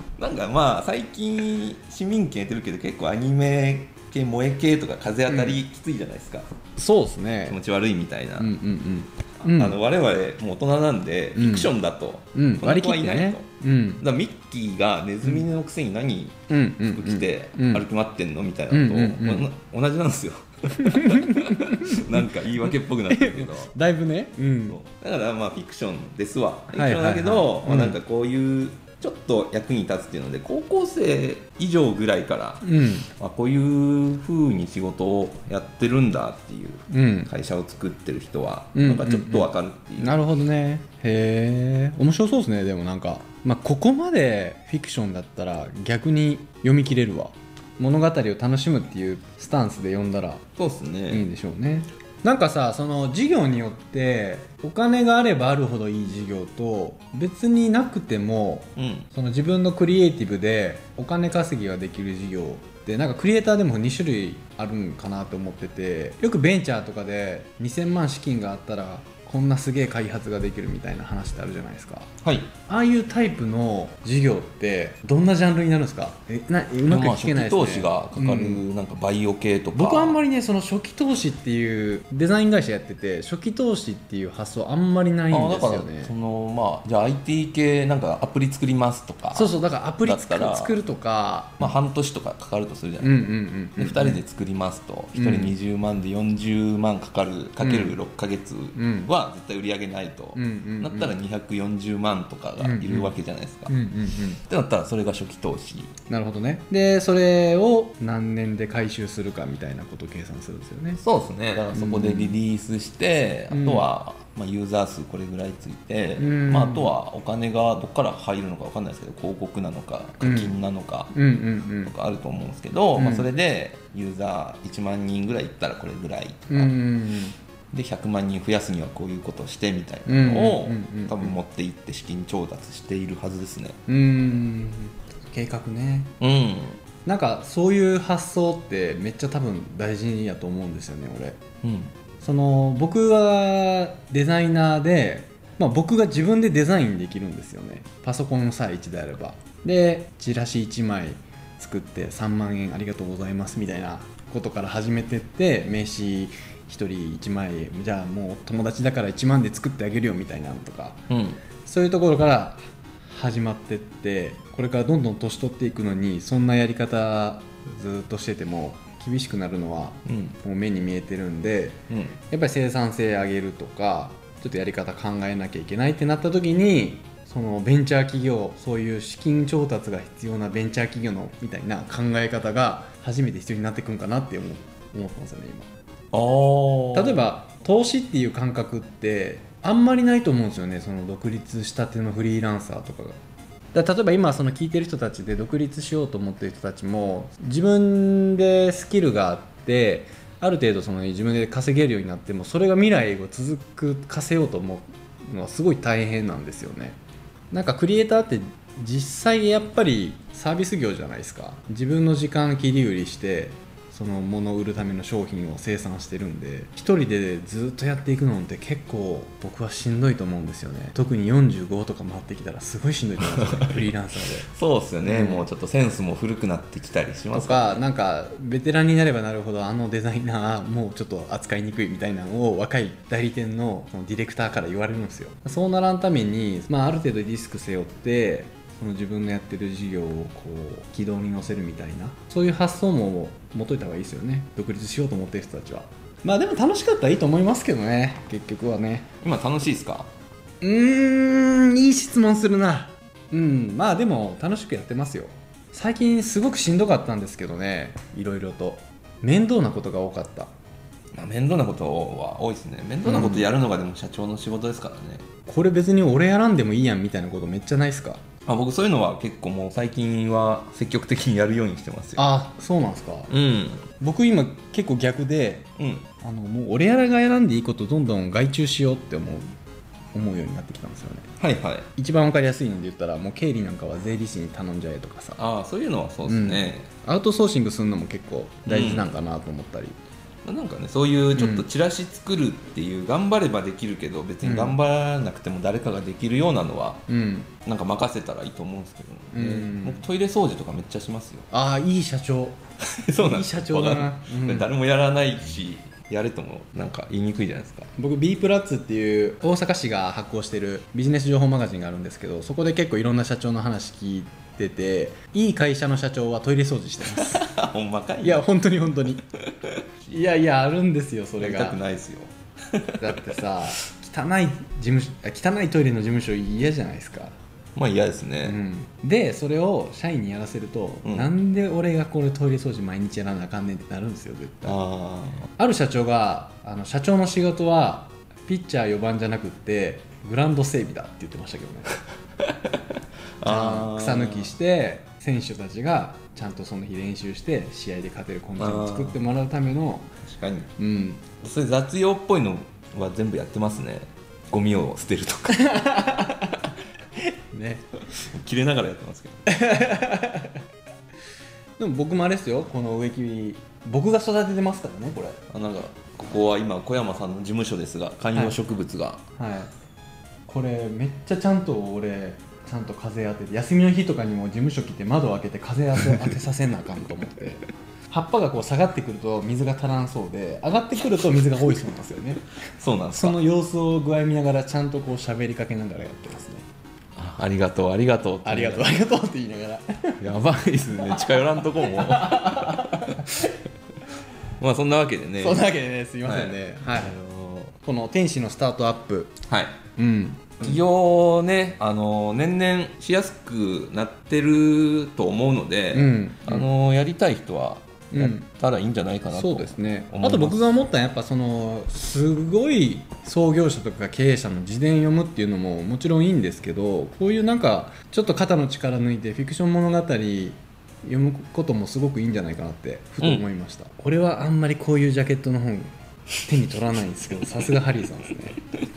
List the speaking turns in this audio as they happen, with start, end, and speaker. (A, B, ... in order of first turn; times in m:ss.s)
0:00.2-0:06.5 A
0:05.3-0:05.6 B
0:06.8-0:07.6 B
0:07.5-0:08.5 A
0:08.4-0:09.8 B
0:09.4-0:13.5 A
0:11.4-0:11.7 B
0:12.3-0:14.0 B
0:14.0-0:16.4 A
0:16.5-0:17.8 B
0:16.9-0:23.7 A
0:18.7-0:19.5 B
0:20.8-0:22.2 B
0:23.1-0:24.8 B
0:24.7-0:40.2 A
0:26.7-0:28.0 B
0:32.6-0:33.1 B
0:36.9-0:37.3 B
0:38.8-0:50.4 B
0:50.6-0:51.2 A
0:51.1-1:12.1 B
0:58.8-0:59.1 A
1:12.2-1:12.5 A
1:12.7-1:18.6 B
1:16.9-1:20.2 A
1:19.8-1:26.1 B
1:25.3-1:30.7 A
1:29.3-1:31.7 B
1:31.6-1:43.7 A
1:33.0-1:34.2 B
1:35.2-1:35.6 B
1:37.6-1:38.0 B
1:38.8-1:39.1 B
1:40.4-1:41.1 B
1:42.6-1:43.1 B
1:43.7-1:44.4 B
1:44.4-1:45.9 A
1:46.1-1:51.0 B
1:51.0-2:01.1 A
1:51.7-1:52.4 B
1:53.5-1:53.9 B
1:56.2-1:56.9 B
2:00.2-2:00.5 B
2:01.1-2:01.9 B
2:01.8-2:06.8 A
2:03.0-2:03.3 B
2:06.5-2:07.4 B
2:07.7-2:13.8 A
2:10.1-2:11.4 B
2:13.9-2:16.1 B
2:16.2-2:16.8 A
2:17.1-2:21.4 B
2:21.6-2:21.9 A
2:22.2-2:41.0 B
2:41.1-2:41.4 A
2:41.6-2:51.8 B
2:50.1-2:50.4 A
2:51.9-2:52.2 A
2:52.3-3:05.7 B
3:06.1-3:07.3 A
3:06.9-3:13.2 B
3:13.7-3:27.0 B
3:27.5-3:44.5 B
3:43.3-3:43.9 A
3:44.5-3:47.8 A
3:45.0-3:45.5 B
3:47.3-4:09.1 B
4:09.2-4:10.1 A
4:10.6-4:20.5 B
4:21.2-4:25.2 A
4:23.0-4:23.5 B
4:25.5-4:28.2 B
4:28.5-4:32.2 A
4:32.2-4:33.3 B
4:33.3-4:33.9 A
4:34.0-4:35.7 B
4:35.8-4:36.1 A
4:36.2-4:39.5 B
4:40.1-4:41.3 B
4:41.4-4:41.9 A
4:42.0-4:45.4 B
4:45.4-4:46.9 A
4:46.3-4:50.0 B
4:48.7-4:49.1 A
4:50.4-4:57.0 A
4:51.4-4:51.7 B
4:54.4-4:54.8 B
4:57.1-4:57.5 B
4:57.6-5:01.5 A
4:59.3-5:00.0 B
5:01.5-5:02.6 B
5:03.0-5:07.9 A
5:03.2-5:04.7 B
5:08.0-5:17.6 B
5:17.1-5:18.4 A
5:18.2-5:19.2 B
5:19.5-5:19.8 A
5:20.1-5:21.8 B
5:21.4-5:23.1 A
5:23.0-5:27.3 B
5:27.8-5:28.6 A
5:28.4-5:34.8 B
5:31.0-5:31.3 A
5:34.7-5:35.5 A
5:35.6-5:41.9 B
5:42.4-5:42.8 A
5:43.4-5:44.5 A
5:43.4-5:50.1 B
5:48.6-5:49.2 A
5:50.2-5:50.7 A
5:50.8-5:51.3 B
5:51.4-5:55.8 A
5:55.5-5:56.6 B
5:57.4-5:57.8 B
5:58.1-5:59.4 A
5:59.5-6:00.6 B
6:01.8-6:05.4 B
6:05.4-6:09.2 A
6:09.4-6:09.7 B
6:10.5-6:22.4 B
6:22.8-6:23.4 A
6:23.1-6:26.7 B
6:27.2-6:28.9 A
6:28.4-6:30.2 B
6:30.2-6:33.2 A
6:31.8-6:33.3 B
6:34.6-6:35.7 A
6:35.4-6:37.2 B
6:36.2-6:37.7 A
6:37.8-6:39.3 B
6:39.5-6:39.8 A
6:40.0-6:40.8 B
6:40.6-6:50.7 A
6:45.9-6:46.7 B
6:48.1-6:48.5 B
6:49.3-7:05.9 B
7:06.4-7:08.6 B